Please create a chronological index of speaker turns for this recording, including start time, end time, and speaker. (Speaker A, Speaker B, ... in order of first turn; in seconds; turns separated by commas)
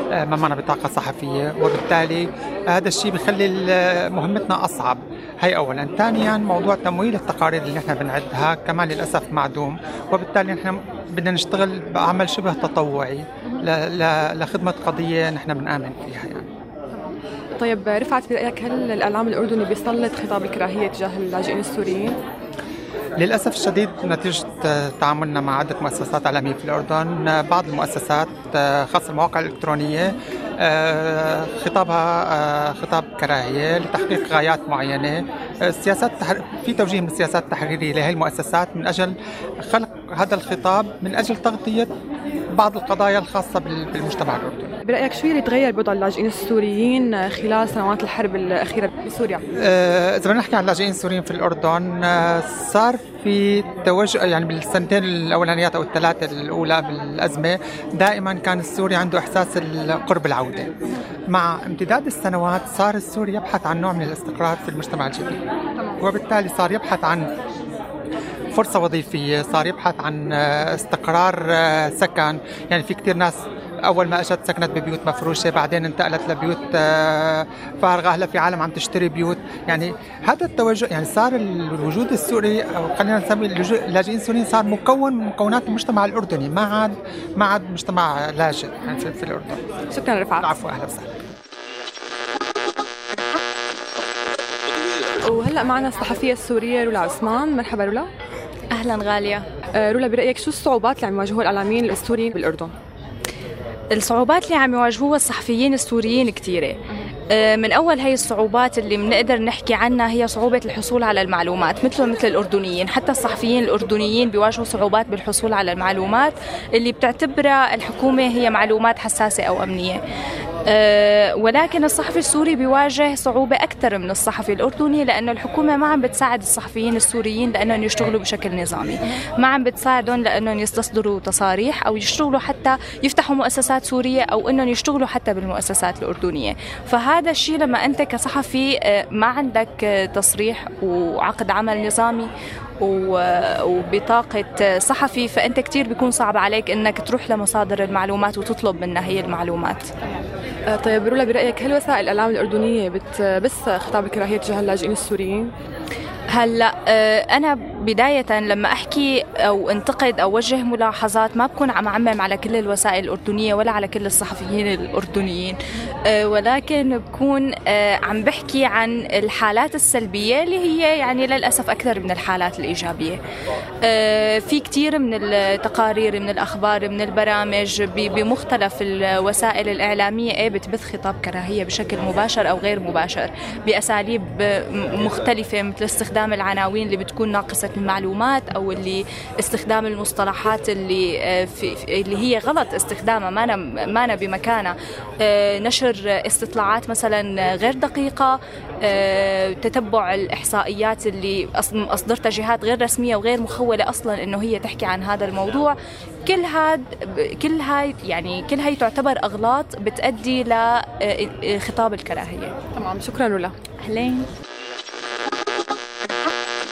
Speaker A: 0.2-16.5, Speaker B: 16.9-22.2, Speaker A: 23.2-39.1, Speaker A: 39.7-41.9, Speaker A: 42.6-44.7, Speaker B: 44.9-49.4, Speaker A: 49.7-60.7, Speaker A: 61.3-65.4, Speaker A: 66.0-67.2, Speaker A: 68.5-89.6, Speaker B: 89.9-90.6, Speaker A: 90.4-91.2, Speaker B: 95.2-98.1, Speaker C: 98.7-99.5, Speaker B: 99.7-102.7, Speaker C: 103.9-106.8, Speaker C: 107.3-120.0, Speaker C: 120.7-149.9, Speaker B: 150.7-155.5, Speaker C: 156.3-173.2, Speaker C: 173.8-205.8, Speaker C: 206.3-212.6, Speaker B: 212.8-213.5, Speaker C: 213.8-214.3